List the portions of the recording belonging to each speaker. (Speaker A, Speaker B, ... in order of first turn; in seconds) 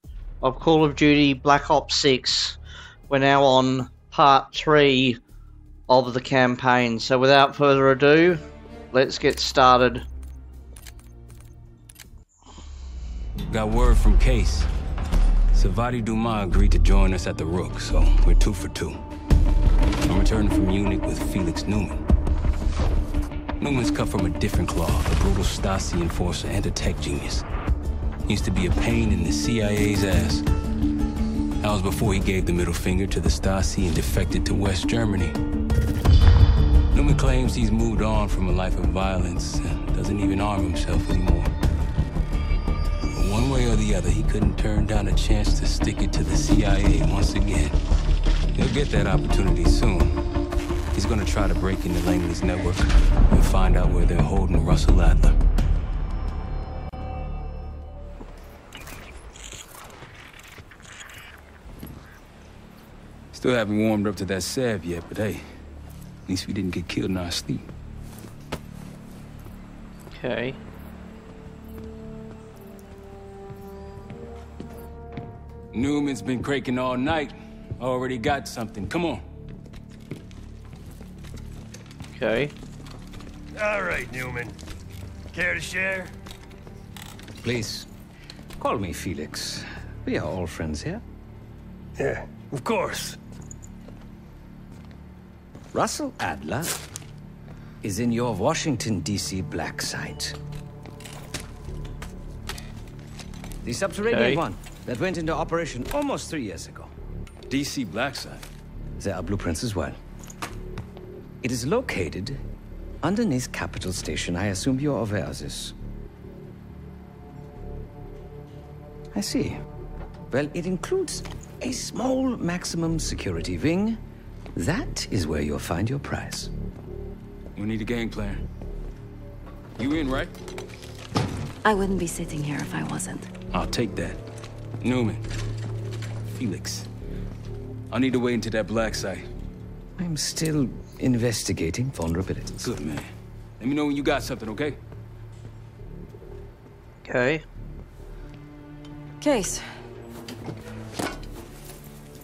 Speaker A: 0.4-2.6, 3.1-5.2, 5.9-8.4, 8.9-10.0, 70.1-70.6, 82.1-82.5, 104.1-104.4, 147.0-147.4
Speaker B: 13.5-14.7, 15.5-19.0, 20.1-22.0, 23.6-27.4, 28.3-30.4, 31.6-35.4, 36.9-41.5, 43.2-47.8, 48.5-50.2, 50.9-55.4, 63.3-65.5, 66.3-67.7, 75.7-79.2, 107.5-108.4, 127.5-128.4, 129.8-130.3, 133.5-134.2, 134.8-135.2, 136.4-136.9, 137.9-139.3, 142.6-144.8
Speaker C: 83.5-84.5, 85.3-86.1, 92.0-93.1
Speaker D: 87.4-87.9, 88.6-91.0, 95.7-96.8, 97.8-100.3, 103.6-106.9, 109.0-110.0, 111.4-112.4, 113.0-115.7, 119.1-119.6, 120.3-124.0, 124.5-126.5, 140.0-142.7
Speaker E: 131.6-133.3, 149.2-149.7